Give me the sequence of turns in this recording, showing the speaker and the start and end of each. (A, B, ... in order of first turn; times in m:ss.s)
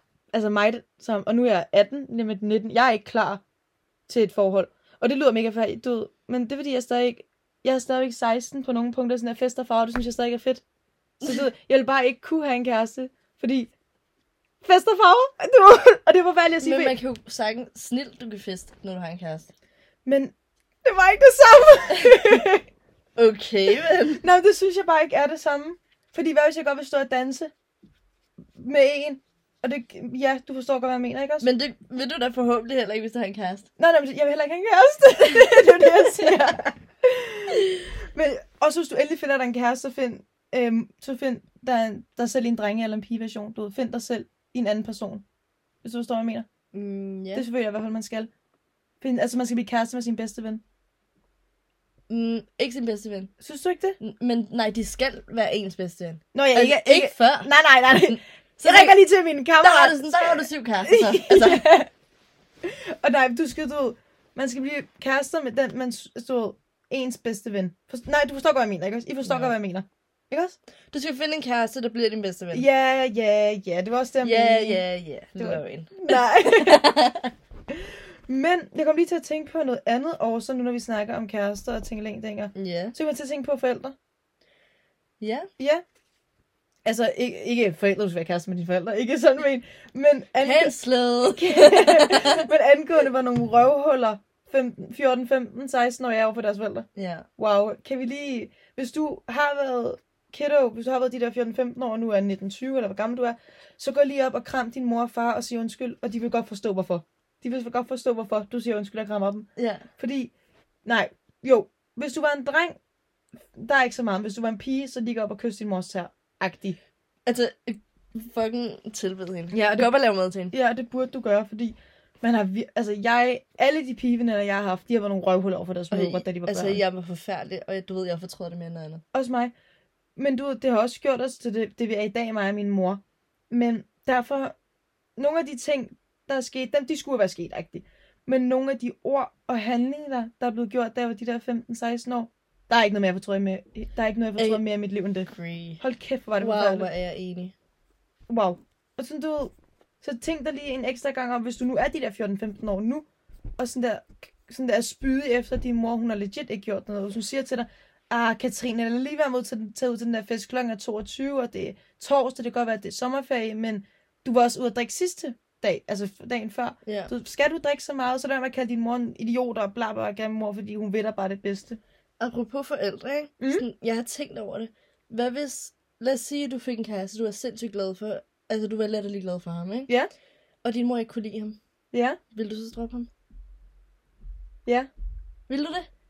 0:00.3-0:03.4 A
0:04.1-0:10.6 A
0:11.2-0:13.7 A
0:14.6-0:17.0 A
0:16.6-0:19.5 B
0:20.0-0:20.3 A
0:20.8-0:22.7 A
0:21.9-0:22.2 B
0:23.2-0:24.2 B
0:24.2-0:27.5 A
0:28.6-0:31.5 A
0:31.4-0:33.7 B
0:33.8-0:45.2 A
0:45.8-0:46.5 A
0:46.7-0:47.4 B
0:47.3-0:48.3 A
0:49.0-0:50.6 A
0:52.1-0:53.3 B
0:53.4-0:54.0 A
0:54.0-0:57.6 B
0:56.3-1:01.9 A
0:58.1-0:59.0 B
0:59.6-1:01.7 B
1:02.6-1:10.6 A
1:09.2-1:09.6 B
1:10.9-1:12.7 B
1:12.5-1:14.8 A
1:14.2-1:17.3 B
1:15.4-1:16.9 A
1:17.7-1:24.0 A
1:22.6-1:23.0 B
1:25.2-1:25.5 B
1:26.8-1:30.8 A
1:30.4-1:32.5 B
1:31.3-1:50.3 A
1:37.0-1:37.3 B
1:49.6-1:49.9 B
1:50.8-1:52.8 A
1:53.5-1:56.8 A
1:57.3-2:00.5 B
1:59.5-1:59.9 A
2:00.5-2:06.8 A
2:05.9-2:09.0 B
2:09.1-2:09.5 A
2:10.2-2:14.6 A
2:15.2-2:25.3 A
2:24.4-2:24.6 B
2:25.3-2:25.8 B
2:25.8-2:26.9 A
2:26.4-2:27.5 B
2:28.3-2:33.1 A
2:33.6-2:51.8 A
2:46.9-2:47.1 B
2:52.2-2:59.9 B
3:00.6-3:01.6 B
3:01.9-3:02.2 A
3:02.3-3:03.1 B
3:05.5-3:05.9 B